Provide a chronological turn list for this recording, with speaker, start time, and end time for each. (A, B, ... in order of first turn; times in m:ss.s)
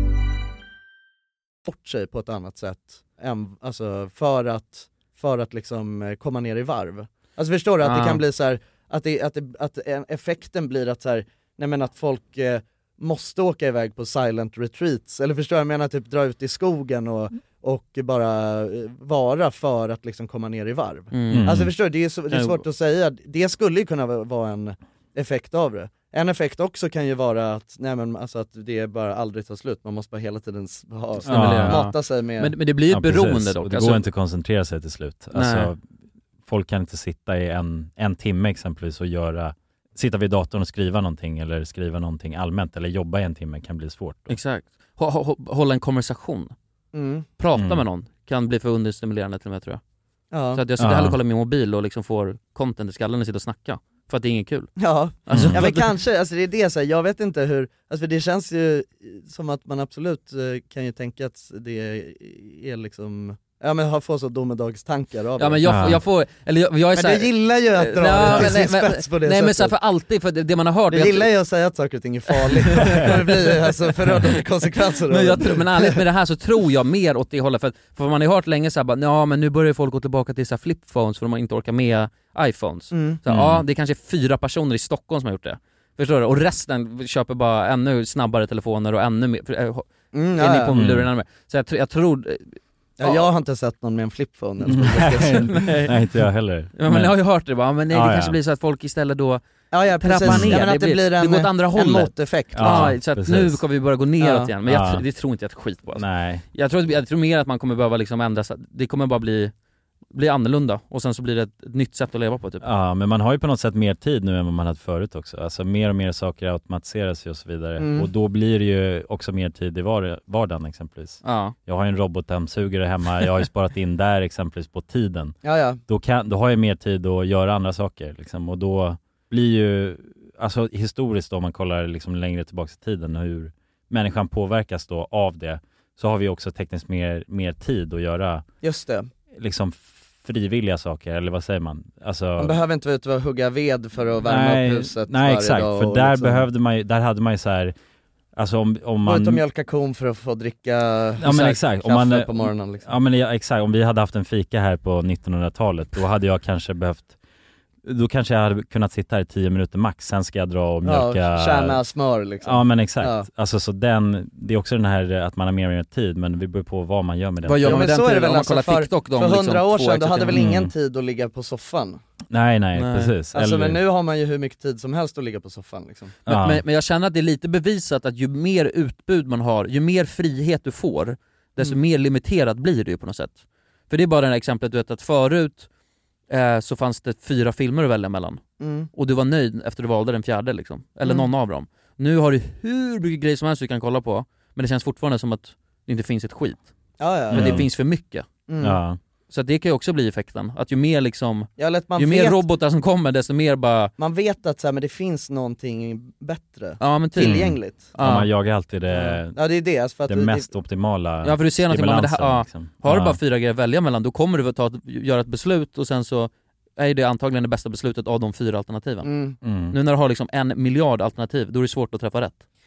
0:01.7-0:32.5 A
0:07.8-0:08.2 B
0:21.1-0:21.6 B
0:21.3-0:21.7 C
0:22.3-0:22.6 B
0:31.2-0:34.0 B
0:31.3-0:31.9 C
0:32.9-0:35.8 C
0:35.4-0:35.7 B
0:36.5-0:44.4 C
0:44.3-0:46.5 B
0:46.9-0:47.3 A
0:47.4-0:49.8 B
0:47.6-0:47.8 C
0:50.3-0:50.6 A
0:50.5-0:55.9 B
0:50.8-0:51.2 C
0:54.8-1:05.6 A
0:55.3-0:55.6 C
1:05.4-1:11.3 B
1:05.6-1:06.0 C
1:07.0-1:09.8 A
1:10.9-1:16.0 A
1:12.3-1:13.5 B
1:15.1-1:33.3 B
1:22.9-1:23.2 A
1:23.3-1:23.6 C
1:30.1-1:30.8 A
1:30.7-1:31.1 C
1:33.0-1:35.6 A
1:34.7-1:37.2 C
1:35.5-1:35.9 B
1:36.8-1:49.5 B
1:37.9-1:38.4 C
1:39.7-1:43.0 A
1:40.2-1:40.6 C
1:42.5-1:43.6 C
1:44.2-1:44.5 A
1:44.6-1:45.0 C
1:46.0-1:46.4 C
1:50.1-1:52.6 B
1:52.6-2:05.4 C
1:57.8-1:58.1 A
2:01.2-2:01.6 B
2:05.4-2:05.8 A
2:05.9-2:18.4 C
2:18.6-2:19.1 A
2:19.3-2:22.6 C
2:22.4-2:26.5 A
2:24.2-2:27.7 C
2:28.4-2:29.4 C
2:29.0-2:32.9 A
2:31.2-2:37.2 C
2:37.8-2:41.8 C
2:40.8-2:43.3 A
2:42.4-2:47.9 C
2:47.4-2:50.4 B
2:47.6-2:52.0 A
2:50.3-2:50.7 C
2:52.3-2:53.8 C
2:52.8-2:53.1 B
2:53.3-2:56.2 A
2:56.3-3:05.7 B
2:56.3-2:56.6 C
3:06.3-3:16.7 B
3:08.6-3:08.9 A
3:17.0-3:17.7 A
3:17.3-3:18.3 B
3:17.3-3:17.7 C
3:18.5-3:18.8 A
3:18.6-3:19.0 C
3:19.3-3:23.9 B
3:21.6-3:22.4 A
3:24.0-3:27.9 A
3:26.8-3:28.3 B
3:27.2-3:29.4 C
3:28.9-3:30.5 A
3:30.1-3:33.2 C
3:31.2-3:39.1 B
3:39.0-3:39.4 A
3:39.4-3:39.8 C
3:39.7-3:42.4 B